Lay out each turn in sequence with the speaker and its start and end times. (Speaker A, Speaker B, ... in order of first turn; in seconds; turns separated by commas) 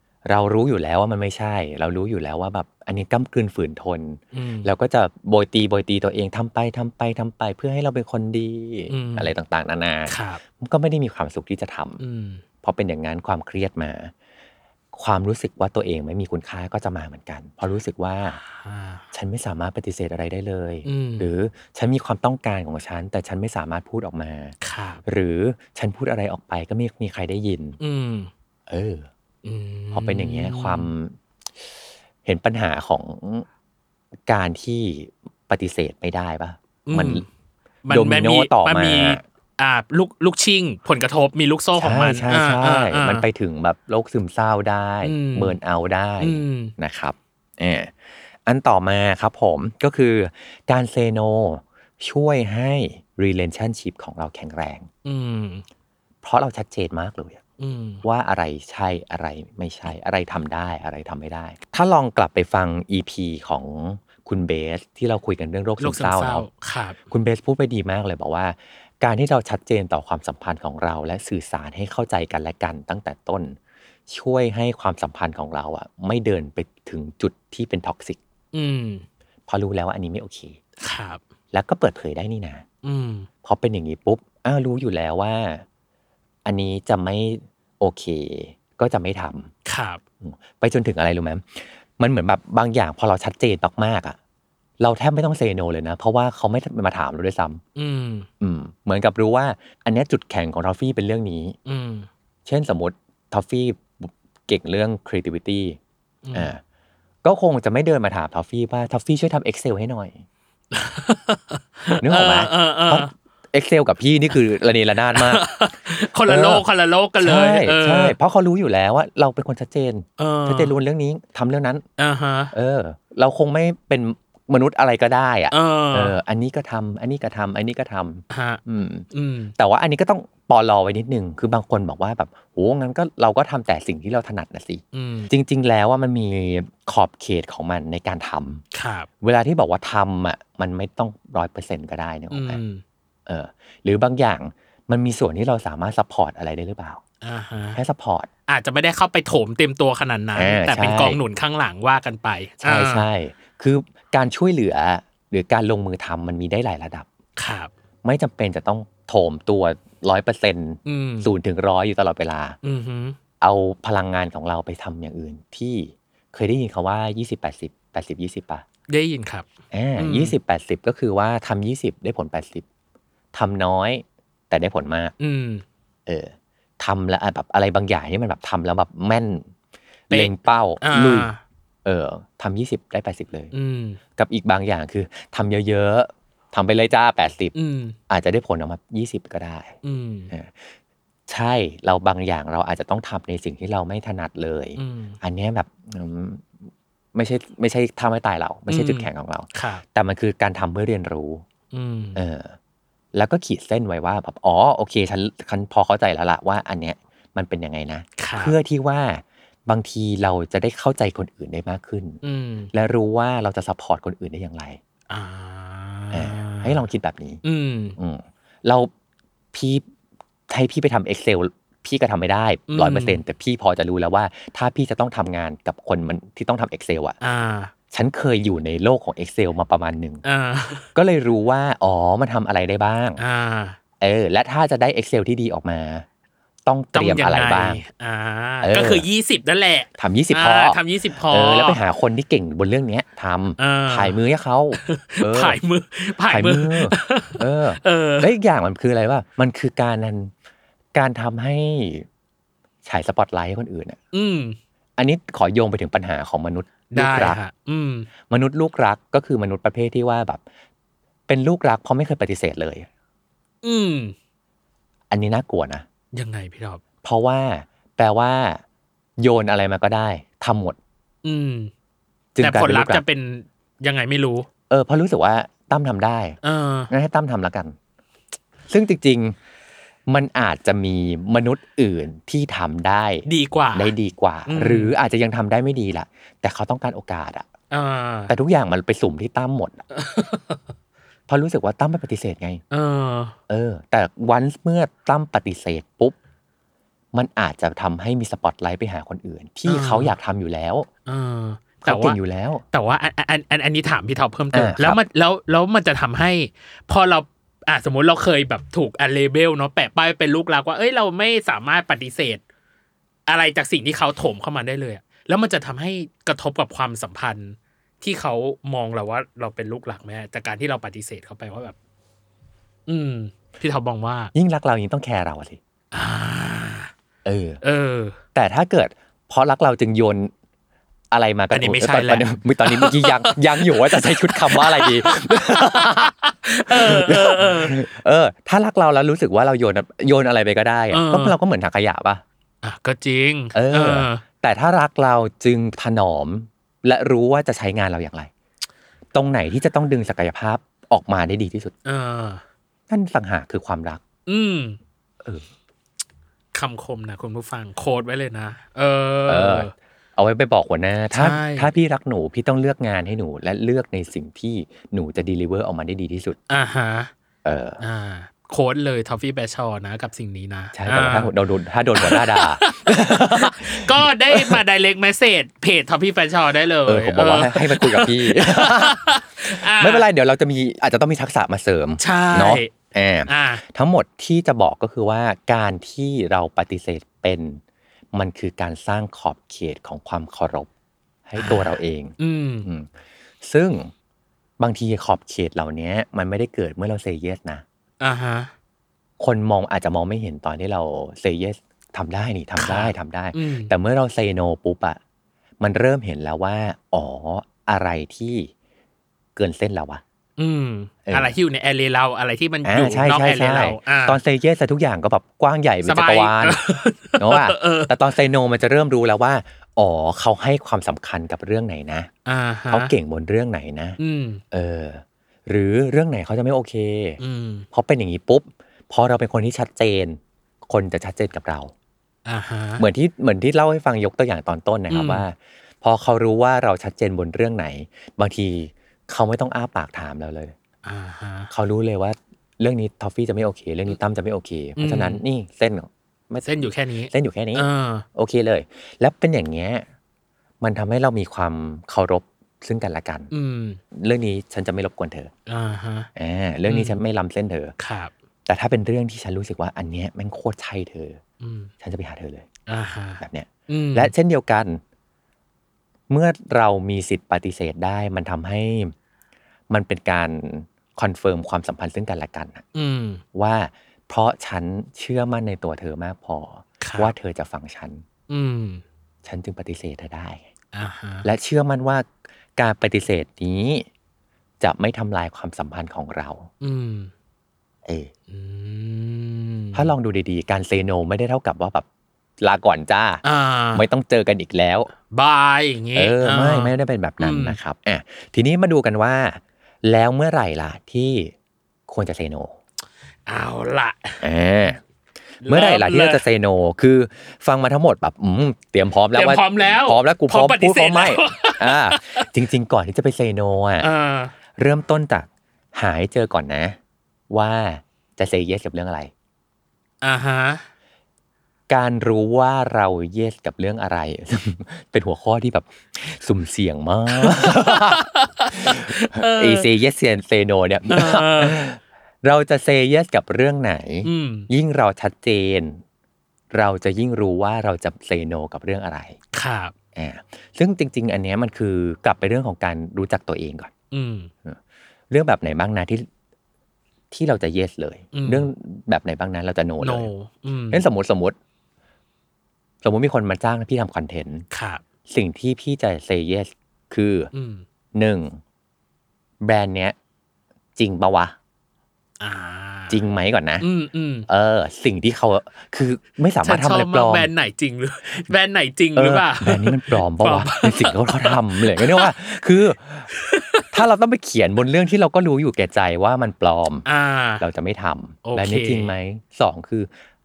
Speaker A: 0.3-12.0, Speaker B: 4.3-4.7, Speaker B: 8.9-9.3, Speaker B: 10.1-10.4, Speaker B: 12.0-12.4, Speaker A: 12.6-14.1, Speaker A: 14.9-18.4, Speaker B: 18.3-19.1, Speaker A: 19.1-27.8, Speaker B: 20.9-21.3, Speaker B: 24.6-25.0, Speaker B: 27.8-28.3, Speaker A: 28.7-29.1, Speaker B: 29.4-30.9, Speaker A: 29.9-31.2, Speaker A: 32.2-33.5, Speaker A: 34.3-37.3, Speaker B: 36.9-37.3, Speaker B: 37.9-43.2, Speaker A: 37.9-39.2, Speaker A: 41.8-54.9, Speaker B: 45.0-45.6, Speaker B: 46.2-46.7, Speaker B: 55.0-55.6, Speaker A: 56.2-57.4, Speaker B: 57.6-58.0, Speaker A: 58.0-66.5, Speaker B: 65.8-67.0, Speaker A: 67.1-73.6, Speaker A: 74.1-78.2, Speaker B: 78.5-79.0, Speaker A: 79.5-80.6, Speaker B: 80.8-81.2, Speaker A: 81.5-82.7, Speaker B: 82.8-83.3, Speaker A: 83.4-85.6, Speaker A: 86.5-89.5, Speaker B: 89.7-90.0, Speaker A: 90.2-94.2, Speaker A: 94.8-97.6, Speaker B: 97.8-98.3, Speaker A: 98.4-101.6, Speaker B: 101.7-102.1, Speaker A: 102.5-105.8, Speaker B: 106.2-106.5, Speaker A: 106.3-106.6, Speaker A: 107.2-110.2, Speaker B: 110.7-113.1, Speaker A: 112.0-115.4, Speaker B: 115.1-118.2, Speaker A: 116.3-116.6, Speaker A: 117.2-121.8, Speaker B: 120.2-120.8, Speaker B: 122.0-122.5, Speaker A: 122.5-138.6, Speaker B: 125.5-126.2, Speaker B: 128.3-129.5, Speaker B: 134.9-135.3, Speaker B: 138.7-139.1, Speaker A: 139.2-142.6, Speaker B: 142.3-142.8, Speaker A: 143.3-147.0, Speaker B: 147.2-147.8, Speaker A: 147.8-148.3, Speaker B: 148.5-153.1, Speaker A: 150.3-151.2, Speaker A: 152.6-157.1, Speaker B: 157.4-157.7, Speaker A: 158.0-162.6, Speaker B: 160.8-161.3, Speaker B: 162.6-163.2, Speaker A: 163.4-168.6, Speaker B: 168.9-170.4, Speaker A: 169.7-172.7, Speaker A: 173.3-175.1, Speaker B: 175.2-175.6, Speaker A: 176.1-179.5, Speaker A: 180.1-181.3, Speaker B: 180.1-181.4, Speaker A: 181.8-183.5, Speaker B: 183.5-184.0, Speaker A: 184.2-187.5, Speaker B: 187.5-188.0, Speaker A: 188.1-189.8, Speaker B: 189.8-190.3, Speaker A: 190.3-196.6, Speaker B: 194.8-195.2, Speaker A: 197.2-201.4, Speaker B: 198.7-199.8, Speaker B: 201.7-202.2, Speaker A: 202.2-202.6, Speaker A: 203.1-212.2, Speaker B: 208.2-208.6, Speaker B: 212.2-212.7, Speaker A: 212.7-214.8, Speaker B: 215.1-216.9, Speaker A: 216.1-217.4, Speaker B: 217.4-218.0, Speaker A: 218.0-218.9, Speaker A: 219.5-219.8, Speaker A: 220.5-227.2, Speaker B: 222.7-223.2, Speaker B: 227.2-227.7, Speaker A: 227.9-230.2, Speaker B: 230.2-230.9, Speaker A: 230.9-233.2, Speaker B: 233.2-233.8, Speaker A: 234.0-236.1, Speaker A: 236.7-237.8, Speaker B: 236.9-241.8, Speaker A: 238.6-239.1, Speaker A: 240.0-245.6, Speaker B: 243.6-244.2, Speaker B: 244.7-248.3, Speaker A: 246.3-250.3, Speaker A: 250.9-252.1, Speaker A: 252.8-254.0, Speaker B: 254.1-254.6, Speaker A: 255.0-257.4, Speaker B: 256.9-258.1, Speaker A: 258.3-260.4, Speaker A: 261.3-262.9, Speaker B: 263.6-264.1, Speaker A: 265.1-265.9, Speaker B: 266.1-266.8, Speaker A: 267.0-268.6, Speaker A: 269.2-270.8, Speaker B: 271.2-271.7, Speaker A: 272.4-273.0, Speaker B: 272.4-274.5, Speaker A: 274.7-276.4, Speaker B: 276.4-276.9, Speaker A: 276.9-277.8, Speaker A: 278.7-279.4, Speaker A: 280.1-287.5, Speaker B: 283.3-283.9, Speaker B: 284.5-284.9, Speaker B: 287.7-288.3, Speaker A: 288.3-289.8, Speaker B: 289.9-290.6, Speaker A: 291.3-292.6, Speaker B: 292.7-293.4, Speaker A: 293.5-296.2, Speaker A: 297.1-300.9, Speaker B: 299.7-300.1, Speaker B: 301.1-302.2, Speaker A: 301.8-302.6, Speaker B: 302.7-312.4, Speaker A: 304.5-305.0, Speaker B: 313.3-321.8, Speaker B: 322.9-324.3, Speaker A: 324.3-325.6, Speaker B: 325.9-326.9, Speaker A: 327.2-327.6, Speaker B: 327.6-328.2, Speaker A: 328.3-330.3, Speaker A: 331.1-336.1, Speaker B: 331.5-337.8, Speaker A: 336.7-342.2, Speaker B: 340.9-341.4, Speaker B: 342.6-344.2, Speaker A: 343.5-348.3, Speaker A: 349.1-351.7, Speaker B: 351.9-352.4, Speaker A: 352.9-354.0, Speaker B: 354.3-354.8, Speaker B: 356.5-359.7, Speaker A: 359.3-366.4, Speaker B: 361.1-361.7, Speaker B: 366.5-367.1, Speaker A: 367.4-367.8, Speaker B: 367.8-371.3, Speaker A: 370.7-374.6, Speaker B: 372.0-380.1, Speaker A: 376.9-387.6, Speaker B: 382.0-382.7, Speaker B: 383.3-383.6, Speaker A: 388.1-390.7, Speaker A: 391.3-392.9, Speaker B: 391.4-392.7, Speaker A: 393.4-393.9, Speaker A: 394.6-397.6, Speaker B: 398.0-398.5, Speaker A: 399.2-405.0, Speaker B: 402.6-403.7, Speaker A: 405.6-408.5, Speaker A: 409.4-410.0, Speaker B: 410.4-414.2, Speaker A: 411.1-411.4, Speaker A: 412.6-416.6, Speaker B: 415.9-417.9, Speaker A: 417.2-422.1, Speaker B: 422.3-422.9, Speaker A: 422.7-424.0, Speaker B: 424.0-424.4, Speaker A: 424.5-427.2, Speaker B: 427.2-427.7, Speaker A: 427.7-431.7, Speaker B: 432.2-432.8, Speaker A: 432.8-440.6, Speaker B: 434.9-435.2, Speaker B: 440.8-441.5, Speaker A: 441.5-446.6, Speaker B: 444.8-445.2, Speaker B: 446.4-448.1, Speaker A: 447.1-449.9, Speaker A: 450.6-453.3, Speaker B: 453.3-453.8, Speaker A: 453.9-455.3, Speaker B: 455.5-456.1, Speaker A: 456.2-457.7, Speaker B: 456.7-457.0, Speaker B: 457.8-458.1, Speaker A: 458.5-461.2, Speaker B: 461.4-461.7, Speaker A: 461.8-462.5, Speaker B: 462.7-464.1, Speaker A: 463.2-464.8, Speaker A: 466.1-468.9, Speaker A: 469.7-472.6, Speaker B: 472.7-473.2, Speaker A: 473.4-478.0, Speaker B: 476.8-477.1, Speaker B: 478.3-478.8, Speaker A: 479.2-480.5, Speaker B: 480.7-481.3, Speaker A: 481.2-483.9, Speaker A: 484.6-486.5, Speaker B: 486.6-487.1, Speaker A: 487.9-488.1, Speaker B: 488.3-489.9, Speaker A: 489.7-491.9, Speaker A: 492.4-493.2, Speaker B: 493.2-493.9, Speaker A: 493.7-494.9, Speaker B: 495.1-497.6, Speaker A: 495.9-501.3, Speaker A: 501.9-502.6, Speaker B: 503.3-504.2, Speaker A: 504.2-504.8, Speaker B: 505.4-506.2, Speaker A: 505.5-513.9, Speaker B: 509.1-512.3, Speaker B: 513.8-514.3, Speaker A: 514.6-516.8, Speaker A: 517.3-519.1, Speaker B: 520.0-520.6, Speaker A: 521.7-535.8, Speaker B: 527.1-529.7, Speaker B: 530.9-531.6, Speaker B: 534.0-534.5, Speaker A: 536.5-539.2, Speaker B: 539.3-539.7, Speaker A: 540.0-543.7, Speaker B: 543.9-544.3, Speaker A: 545.1-546.1, Speaker A: 547.1-550.1, Speaker B: 548.1-548.5, Speaker B: 549.8-550.8, Speaker A: 550.7-551.4, Speaker A: 552.8-554.5, Speaker B: 554.5-554.8, Speaker A: 555.1-557.3, Speaker B: 557.3-557.6, Speaker A: 558.0-558.4, Speaker A: 559.4-560.0, Speaker A: 560.8-561.4, Speaker B: 562.2-563.0, Speaker A: 562.9-563.7, Speaker B: 563.6-564.3, Speaker A: 564.3-567.3, Speaker B: 566.4-572.1, Speaker A: 569.0-573.1, Speaker B: 573.1-573.7, Speaker A: 573.7-576.9, Speaker B: 576.9-577.4, Speaker A: 577.4-579.9, Speaker B: 578.2-579.0